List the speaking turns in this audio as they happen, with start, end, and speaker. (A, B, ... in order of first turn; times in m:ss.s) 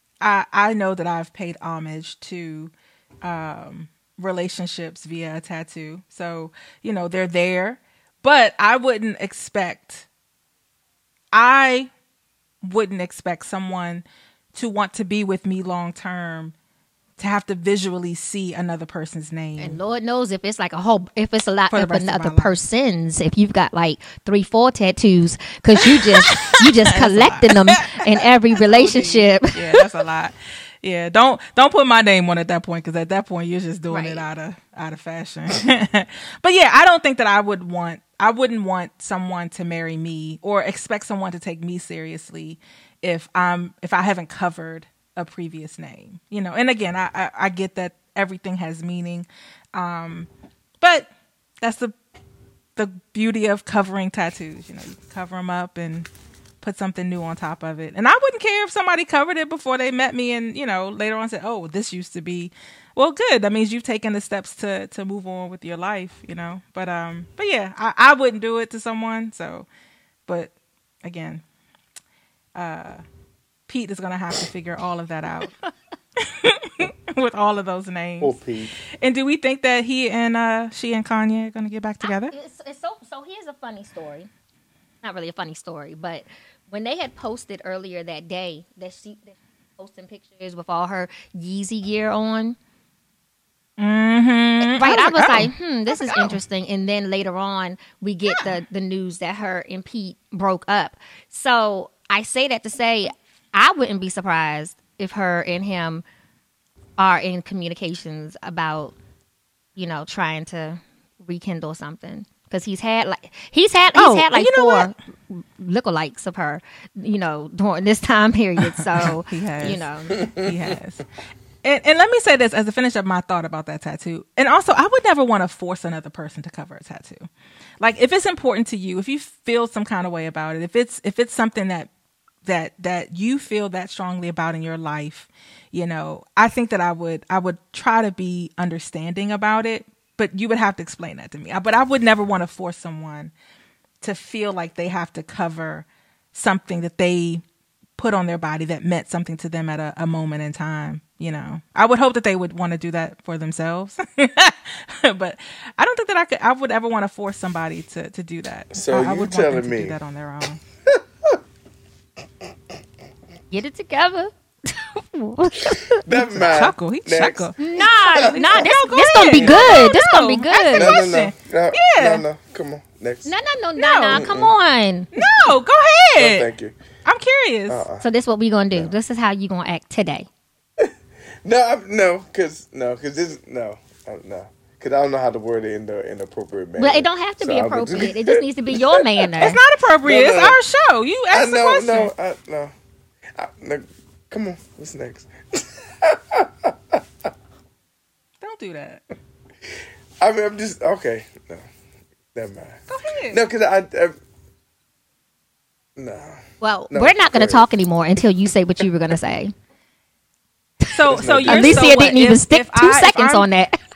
0:00.2-0:10.1 A
0:11.3-0:11.9 A
0:12.6-0:16.5 A
0:17.2-0:19.8 A
0:19.6-0:29.6 B
0:21.7-0:22.5 A
0:25.8-0:50.3 A
0:33.9-0:34.2 B
0:50.8-0:51.1 A
0:51.6-0:51.9 A
0:52.8-0:56.1 A
0:56.6-1:09.7 A
1:10.3-1:10.5 A
1:11.0-1:11.4 A
1:12.5-1:13.0 A
1:13.7-1:15.5 A
1:16.2-1:18.4 A
1:18.2-1:18.7 C
1:19.0-1:22.3 A
1:22.0-1:24.3 B
1:25.0-1:32.6 B
1:33.8-1:36.4 A
1:34.6-1:46.0 B
1:38.3-1:38.6 A
1:47.0-1:48.9 B
1:49.8-2:00.2 B
1:53.9-1:54.9 A
1:58.8-2:01.1 A
2:01.6-2:07.3 A
2:07.8-2:11.9 A
2:12.4-2:23.3 A
2:24.0-2:27.4 A
2:28.0-2:40.6 A
2:38.7-2:40.0 C
2:40.9-2:41.4 C
2:43.5-2:46.0 B
2:46.0-2:48.6 C
2:46.1-2:52.2 A
2:47.6-2:51.0 B
2:49.4-2:49.8 C
2:50.7-2:53.3 C
2:53.2-2:55.1 B
2:53.8-2:54.2 A
2:54.1-2:54.5 C
2:55.1-2:56.5 A
2:56.2-2:56.8 C
2:57.0-2:57.8 A
2:57.7-2:58.0 C
2:58.0-3:00.3 B
3:01.4-3:09.3 C
3:06.8-3:09.6 B
3:09.4-3:12.1 A
3:10.0-3:10.6 C
3:11.3-3:12.7 C
3:13.3-3:17.3 C
3:18.4-3:19.0 A
3:20.2-3:21.6 C
3:22.3-3:24.2 C
3:22.9-3:23.4 A
3:26.0-3:27.7 C
3:26.6-3:29.5 B
3:30.9-3:33.5 A
3:31.1-3:31.9 C
3:31.4-3:33.7 B